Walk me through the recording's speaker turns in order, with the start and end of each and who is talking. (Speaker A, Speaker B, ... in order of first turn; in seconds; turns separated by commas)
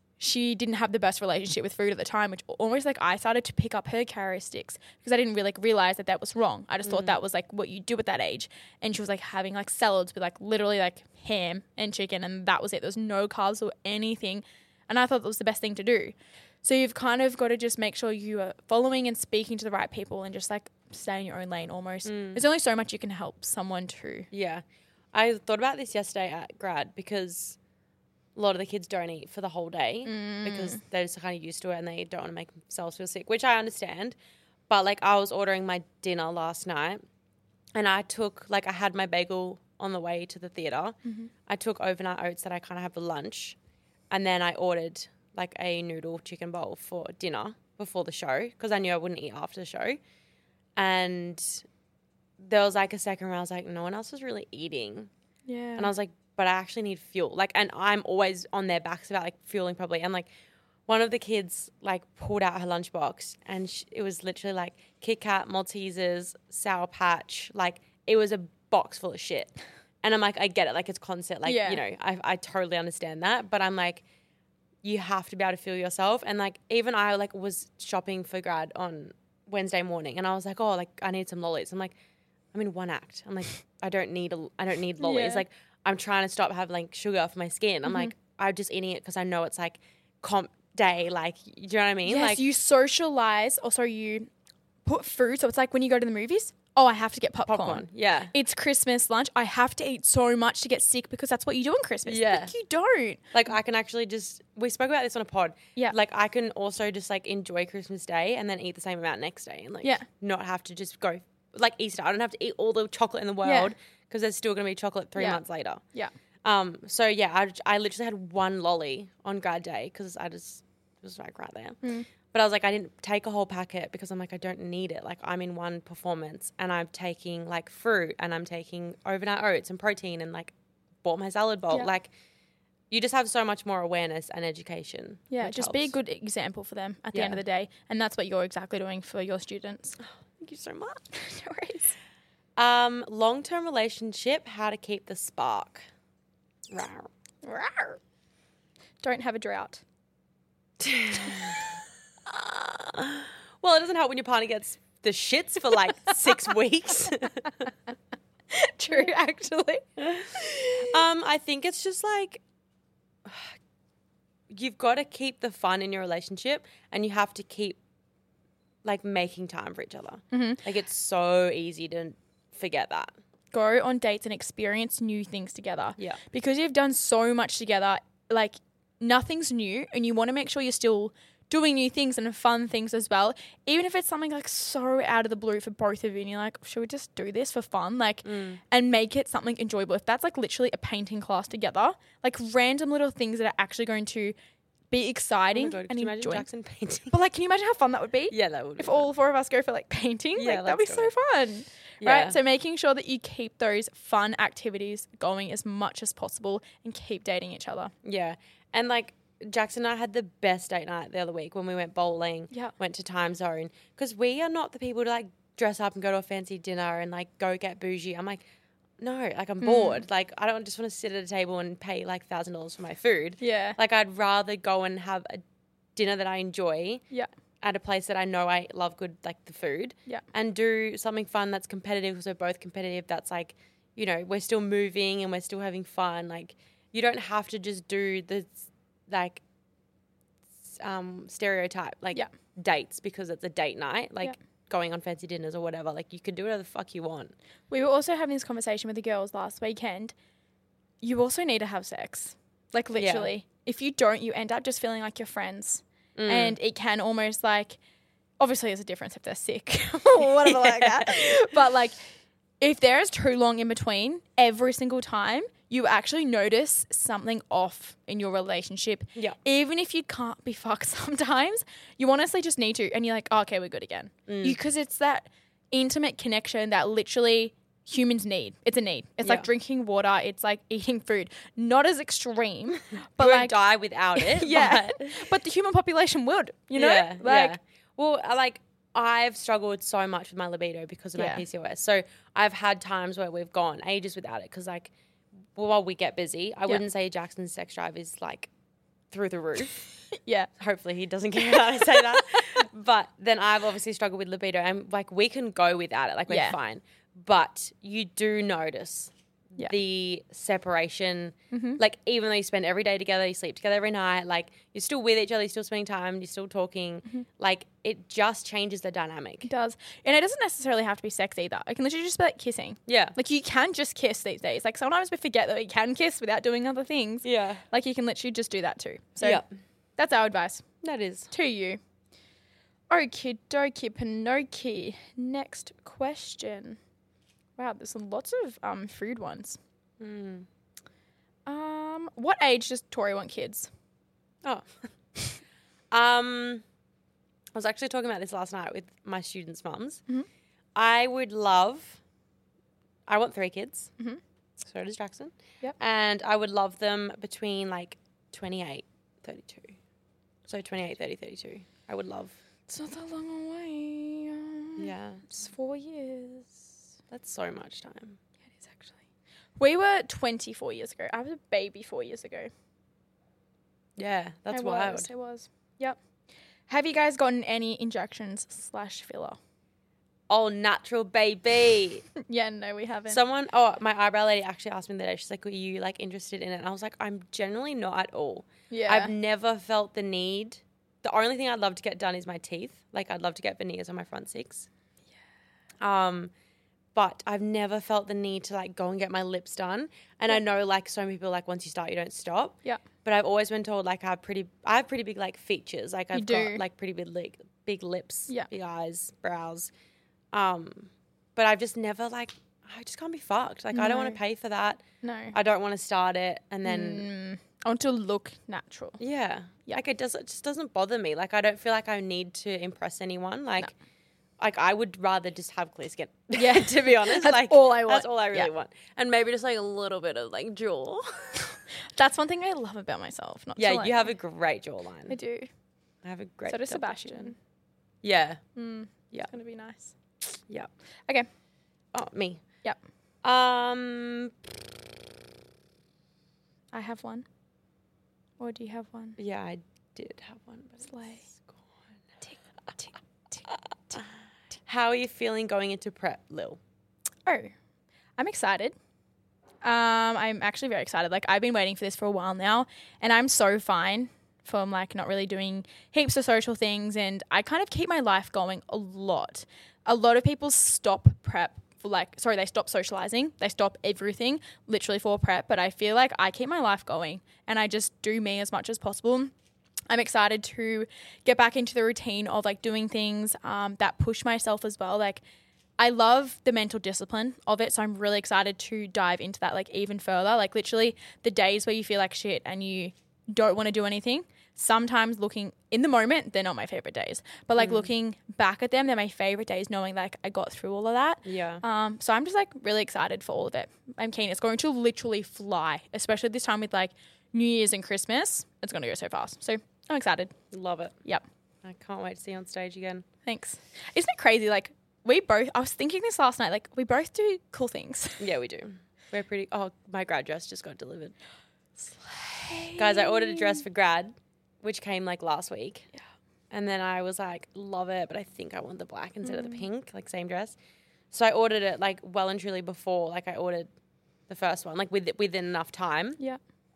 Speaker A: 0.2-24.3, Speaker B: 6.8-7.2, Speaker B: 22.0-22.4, Speaker B: 24.3-27.6, Speaker B: 28.4-34.1, Speaker A: 30.0-30.8, Speaker B: 34.7-37.0, Speaker B: 37.7-43.5, Speaker A: 41.0-41.3, Speaker B: 44.1-50.0, Speaker B: 50.8-51.6, Speaker B: 52.4-55.1, Speaker A: 55.5-55.9, Speaker B: 55.8-60.3, Speaker B: 60.9-69.5, Speaker B: 70.0-74.0, Speaker A: 71.5-71.8, Speaker B: 74.8-81.9, Speaker B: 82.5-92.4, Speaker A: 85.0-85.5, Speaker A: 87.8-88.1, Speaker A: 92.0-94.3, Speaker A: 94.8-103.2, Speaker B: 97.5-98.3, Speaker B: 102.0-102.5, Speaker B: 103.3-115.8, Speaker A: 113.4-113.7, Speaker A: 115.2-115.4, Speaker B: 116.4-121.8, Speaker A: 121.8-122.1, Speaker B: 122.3-130.5, Speaker B: 131.0-132.1, Speaker B: 132.9-135.9, Speaker A: 135.3-140.0, Speaker B: 137.1-137.4, Speaker B: 140.0-141.0, Speaker A: 141.1-141.9, Speaker B: 142.6-145.8, Speaker B: 146.7-147.1, Speaker A: 147.4-148.0, Speaker A: 149.0-149.8, Speaker B: 150.8-151.7, Speaker B: 152.2-157.7, Speaker A: 158.5-160.9, Speaker B: 160.0-162.4, Speaker B: 163.2-163.5, Speaker B: 164.5-167.8, Speaker B: 168.8-173.1, Speaker A: 170.3-170.6, Speaker A: 173.5-194.3, Speaker B: 188.2-188.6, Speaker A: 194.9-196.5, Speaker B: 195.5-197.1, Speaker A: 197.1-207.9, Speaker B: 198.3-199.1, Speaker B: 200.3-201.1, Speaker B: 202.0-202.4, Speaker B: 208.0-218.4, Speaker B: 219.0-225.4, Speaker A: 219.6-220.0, Speaker A: 223.4-223.8, Speaker B: 225.9-227.0, Speaker B: 227.6-239.4, Speaker B: 240.8-247.3, Speaker A: 247.7-250.1, Speaker A: 251.0-257.8, Speaker B: 253.0-253.3, Speaker B: 256.2-256.6, Speaker A: 258.4-262.0, Speaker B: 260.4-261.3, Speaker A: 262.6-283.6, Speaker B: 274.3-274.6, Speaker B: 283.2-285.3, Speaker A: 284.1-287.6, Speaker B: 286.8-294.9, Speaker A: 291.1-291.4, Speaker B: 295.5-298.5, Speaker B: 299.1-299.9, Speaker A: 300.1-300.5, Speaker B: 300.6-319.5, Speaker A: 301.8-302.4, Speaker A: 306.3-306.6, Speaker A: 311.5-311.8, Speaker A: 319.4-329.4, Speaker B: 322.9-323.1, Speaker B: 327.2-327.6, Speaker B: 329.2-329.5, Speaker A: 330.0-330.6, Speaker B: 330.8-331.3, Speaker A: 331.3-331.8, Speaker A: 332.9-336.8, Speaker A: 337.6-339.6, Speaker B: 340.0-340.5, Speaker A: 341.4-343.7, Speaker B: 345.9-346.6, Speaker B: 347.5-350.0, Speaker B: 350.7-352.0, Speaker B: 353.1-353.9, Speaker B: 354.6-359.8, Speaker B: 360.5-362.4, Speaker A: 362.7-366.7, Speaker B: 364.8-365.4, Speaker B: 367.1-368.2, Speaker A: 368.6-368.9, Speaker A: 369.6-372.5, Speaker B: 374.0-375.1, Speaker A: 374.5-376.0, Speaker A: 376.7-379.4, Speaker B: 380.3-382.1, Speaker A: 382.2-383.2, Speaker B: 383.1-394.7, Speaker A: 388.7-389.1, Speaker B: 395.8-396.3, Speaker B: 396.9-409.7, Speaker A: 406.1-406.6, Speaker B: 410.3-417.1, Speaker A: 413.7-414.2, Speaker A: 415.0-415.3, Speaker A: 416.6-419.0, Speaker B: 419.0-423.7, Speaker B: 424.4-431.6, Speaker A: 426.4-428.5, Speaker A: 431.9-434.1, Speaker B: 433.6-435.2, Speaker A: 435.1-435.5, Speaker B: 436.0-437.3, Speaker A: 436.5-437.4, Speaker B: 438.0-438.4, Speaker A: 438.6-439.9, Speaker B: 441.9-442.4, Speaker B: 443.2-444.3, Speaker A: 446.7-447.2, Speaker A: 448.4-449.2, Speaker B: 449.2-451.7, Speaker A: 450.9-451.2, Speaker A: 452.3-453.4, Speaker B: 453.5-454.0, Speaker B: 454.6-456.6, Speaker A: 457.2-457.5, Speaker A: 458.2-458.7, Speaker A: 459.6-479.3, Speaker A: 479.9-485.2, Speaker A: 485.8-510.3, Speaker B: 497.6-497.9, Speaker B: 501.2-501.6, Speaker B: 510.5-510.9, Speaker B: 511.6-513.0, Speaker A: 513.2-518.2, Speaker B: 518.2-521.1, Speaker A: 522.0-523.6, Speaker B: 522.7-525.9, Speaker B: 526.5-530.6, Speaker A: 529.2-529.6, Speaker B: 531.1-533.7, Speaker B: 534.3-536.2